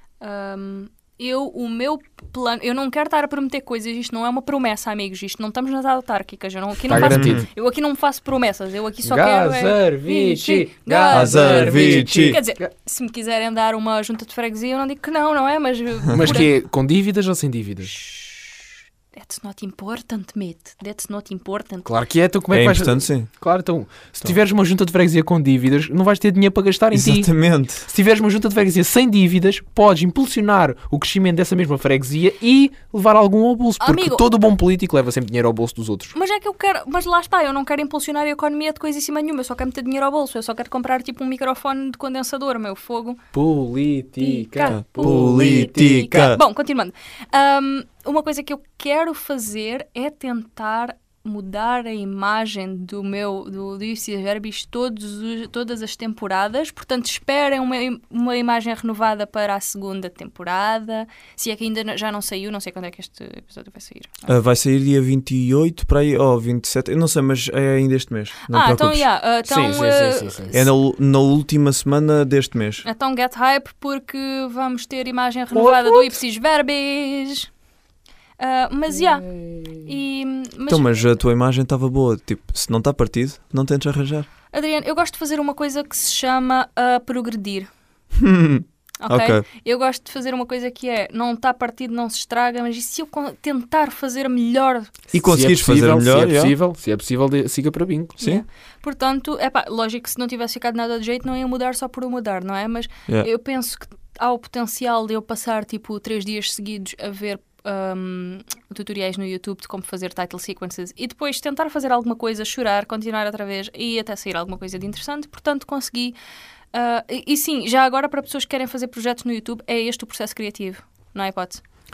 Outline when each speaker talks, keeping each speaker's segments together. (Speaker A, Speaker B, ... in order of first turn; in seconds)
Speaker A: 0.2-16.5, 17.9-18.6, 19.1-21.9, 33.8-34.3, 36.1-43.2, 44.2-64.3, 68.5-70.7, 72.8-77.5, 78.4-79.3, 79.8-81.1, 84.5-87.7, 89.0-94.9, 98.2-116.2, 116.7-121.6
Speaker B: 6.9-7.5, 9.0-12.7, 16.1-17.9, 21.9-27.3, 27.8-36.1, 43.3-46.4, 69.5-70.5, 75.5-76.2, 78.9-79.9, 95.2-98.2
Speaker C: 6.9-7.5, 11.1-12.4, 22.5-23.3, 26.9-27.9, 44.7-46.4, 64.3-69.0, 70.5-72.9, 80.7-84.3, 88.1-89.4, 95.1-96.5, 98.2-98.4